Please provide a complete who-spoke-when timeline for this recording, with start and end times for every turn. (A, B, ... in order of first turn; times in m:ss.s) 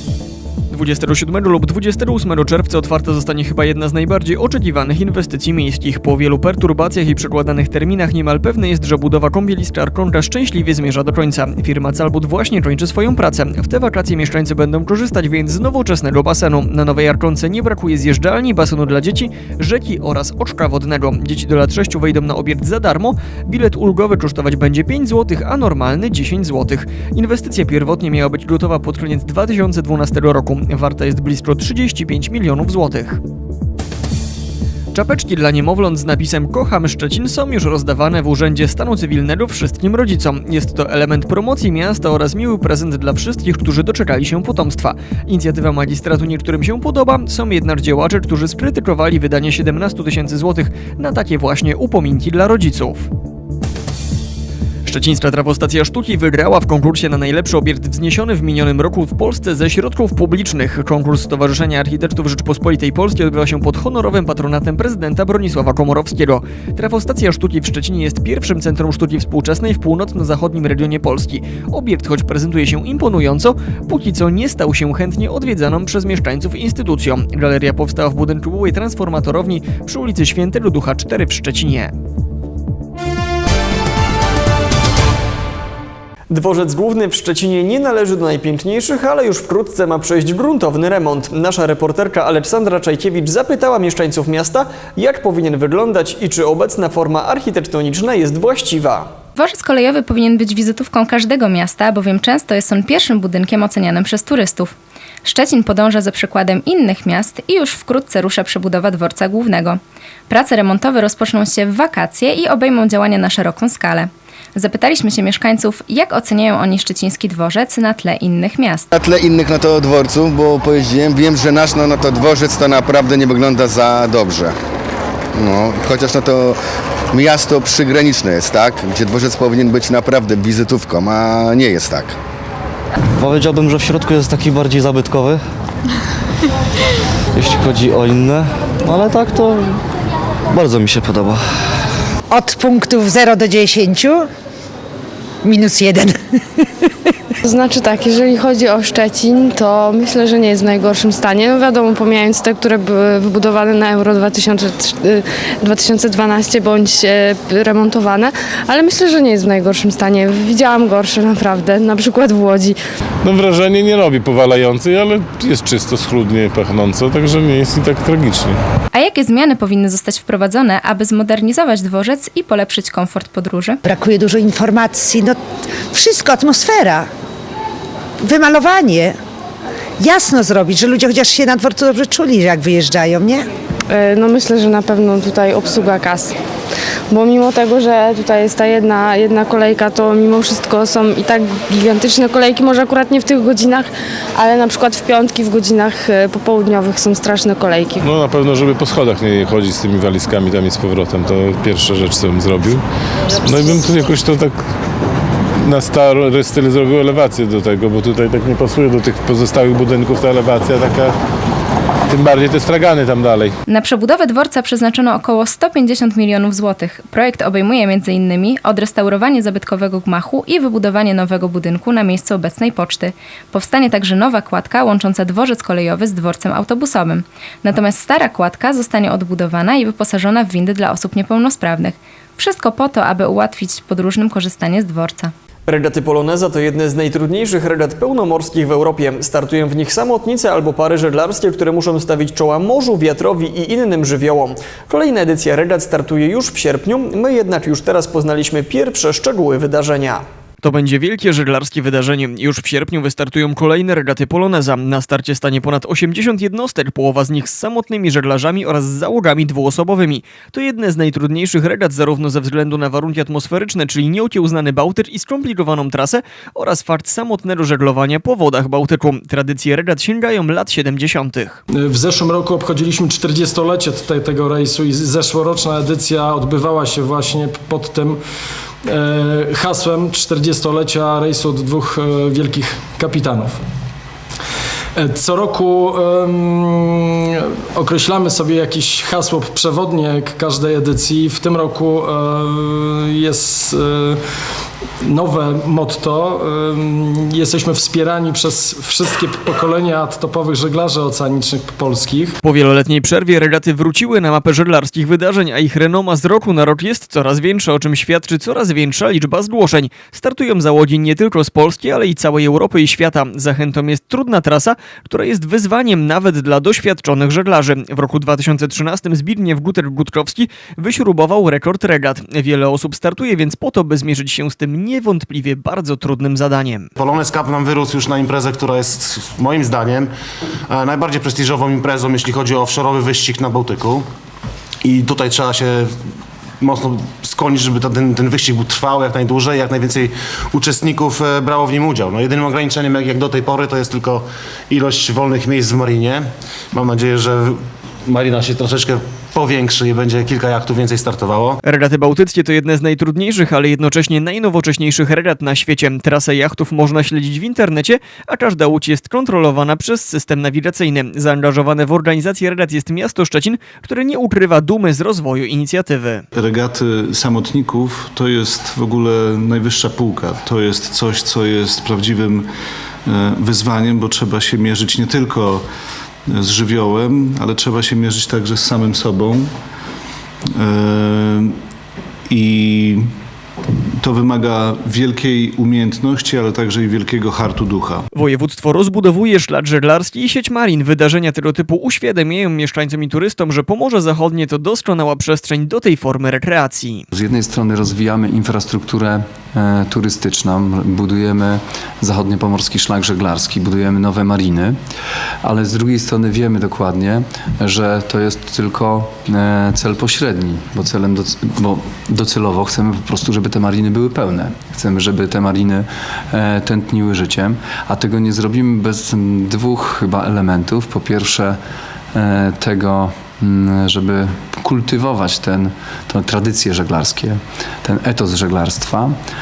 0:00.7-0:33.2 A
0:34.9-0:53.1 A
0:54.8-1:21.9 A
1:26.3-1:39.1 A
1:39.4-1:58.9 B
1:58.9-2:04.5 C
2:05.3-2:06.5 C
2:07.1-2:12.1 C
2:13.2-2:15.3 D
2:17.4-2:19.8 D
2:20.5-2:21.3 D
2:22.3-2:24.2 E
2:25.4-2:26.2 E
2:27.4-2:42.8 F
2:43.2-2:48.6 G
2:48.9-2:53.8 B
2:53.8-2:55.4 E
2:55.9-2:57.1 E
2:58.2-2:59.2 E
3:00.0-3:03.4 E
3:03.9-3:06.3 F
3:07.1-3:18.1 F
3:18.0-3:22.8 G
3:23.4-3:24.6 G
3:25.6-3:31.1 G
3:32.1-3:33.6 G
3:33.7-3:55.3 B
3:55.7-4:31.6 A
4:31.8-4:38.2 H
4:38.8-4:43.6 H
4:45.0-4:47.1 H
4:47.7-4:54.2 H
4:55.0-5:02.4 H
5:02.4-5:26.9 A
5:27.0-5:30.1 I
5:30.7-5:34.0 I
5:34.8-5:35.8 I
5:36.6-5:47.5 I
5:48.1-5:51.6 I
5:51.6-6:06.2 A
6:06.3-6:12.5 J
6:13.1-6:15.6 J
6:16.3-6:19.5 J
6:20.6-6:21.5 J
6:22.3-6:23.0 J
6:24.0-6:28.0 J
6:28.1-6:37.1 A
6:37.1-6:44.8 K
6:45.4-7:01.6 K
7:02.1-7:09.1 K